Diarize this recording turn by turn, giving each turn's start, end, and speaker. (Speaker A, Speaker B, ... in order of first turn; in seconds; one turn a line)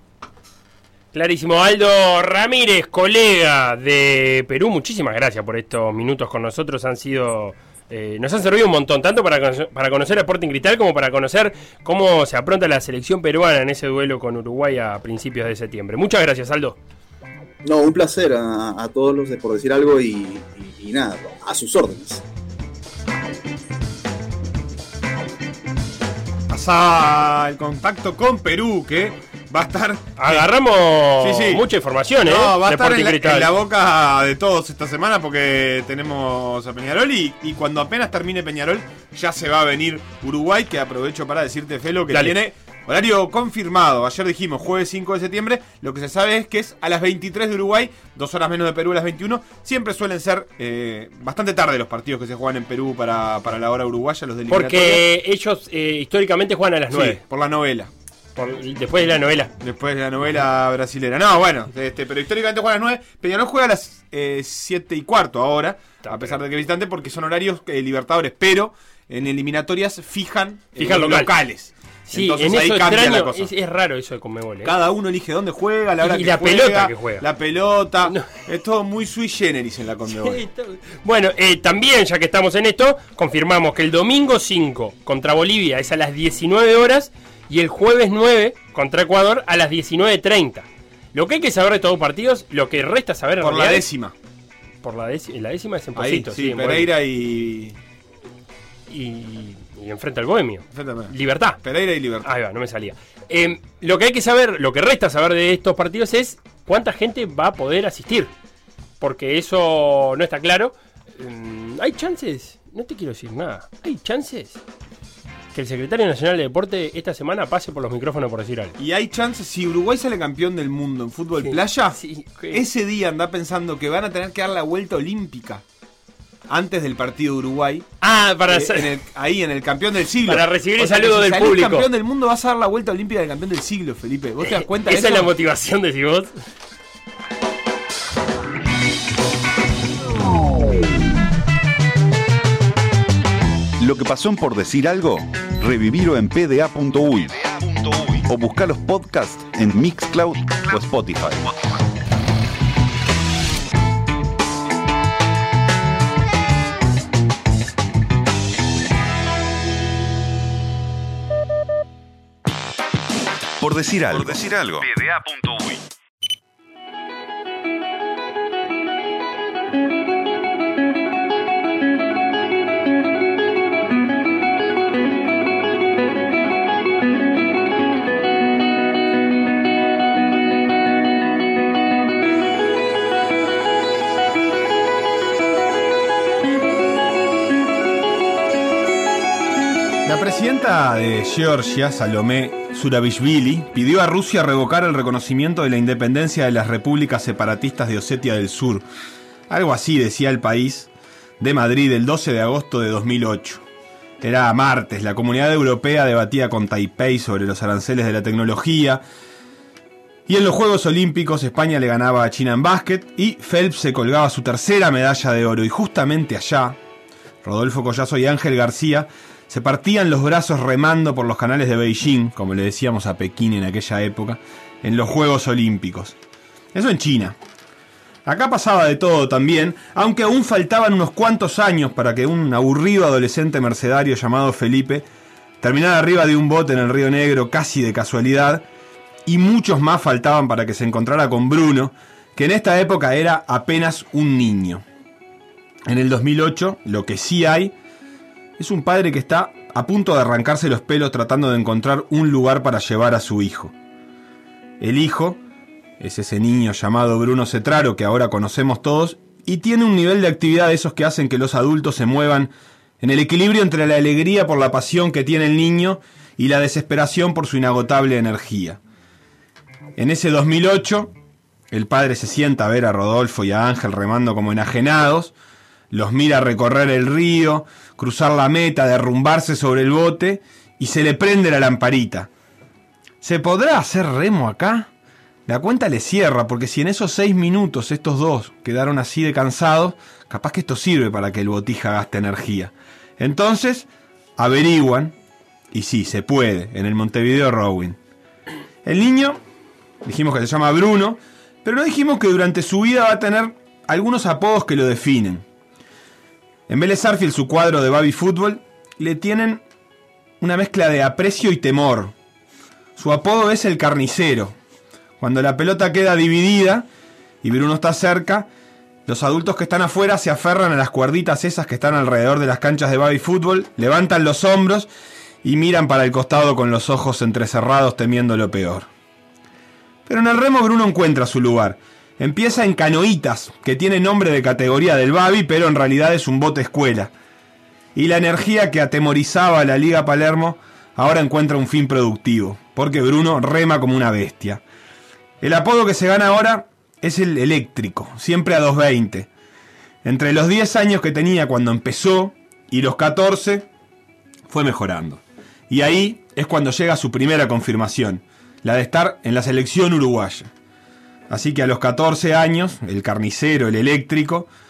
Speaker A: 1.1-16.8
Speaker B: 17.6-22.2
Speaker C: 26.5-30.5
Speaker A: 30.2-33.5
Speaker C: 31.2-31.6
Speaker C: 32.2-55.0
Speaker A: 54.5-57.2
Speaker C: 56.9-57.9
Speaker A: 58.4-59.5
Speaker C: 59.6-73.5
Speaker A: 66.0-66.4
Speaker A: 70.8-71.3
Speaker A: 72.1-74.7
Speaker C: 74.6-80.4
Speaker A: 76.0-77.2
Speaker A: 78.0-78.3
Speaker A: 80.1-93.8
Speaker C: 93.4-94.1
Speaker A: 94.8-96.9
Speaker C: 96.0-97.8
Speaker A: 98.9-101.6
Speaker C: 100.7-102.3
Speaker A: 102.2-108.3
Speaker A: 109.0-114.6
Speaker A: 115.5-118.8
Speaker C: 118.8-125.6
Speaker A: 121.4-122.6
Speaker C: 126.5-127.9
Speaker A: 128.0-128.9
Speaker C: 128.5-135.3
Speaker A: 130.2-131.9
Speaker A: 134.4-136.3
Speaker D: 143.8-151.5
Speaker D: 163.6-165.8
Speaker C: 190.1-198.8
Speaker C: 199.5-200.9
Speaker C: 201.4-203.6
Speaker C: 204.2-209.0
Speaker C: 210.3-216.8
Speaker C: 217.4-226.2
Speaker C: 226.7-227.3
Speaker C: 228.2-235.0
Speaker C: 235.6-238.7
Speaker C: 239.2-244.8
Speaker C: 245.9-247.7
Speaker C: 248.6-253.7
Speaker C: 254.8-255.4
Speaker C: 256.0-268.8
Speaker C: 270.0-271.1
Speaker C: 271.7-275.3
Speaker C: 275.9-282.3
Speaker C: 283.2-284.9
Speaker C: 285.5-295.1
Speaker C: 295.7-298.0
Speaker C: 298.8-299.4
Speaker C: 300.0-305.4
Speaker C: 306.7-309.6
Speaker C: 310.4-312.1
Speaker C: 313.0-314.5
Speaker C: 315.2-316.9
Speaker C: 317.4-318.5
Speaker C: 319.1-324.9
Speaker C: 325.4-328.9
Speaker C: 330.1-337.1
Speaker C: 337.9-344.6
Speaker C: 345.4-349.3
Speaker C: 350.0-353.6
Speaker C: 354.5-360.5
Speaker C: 361.3-364.5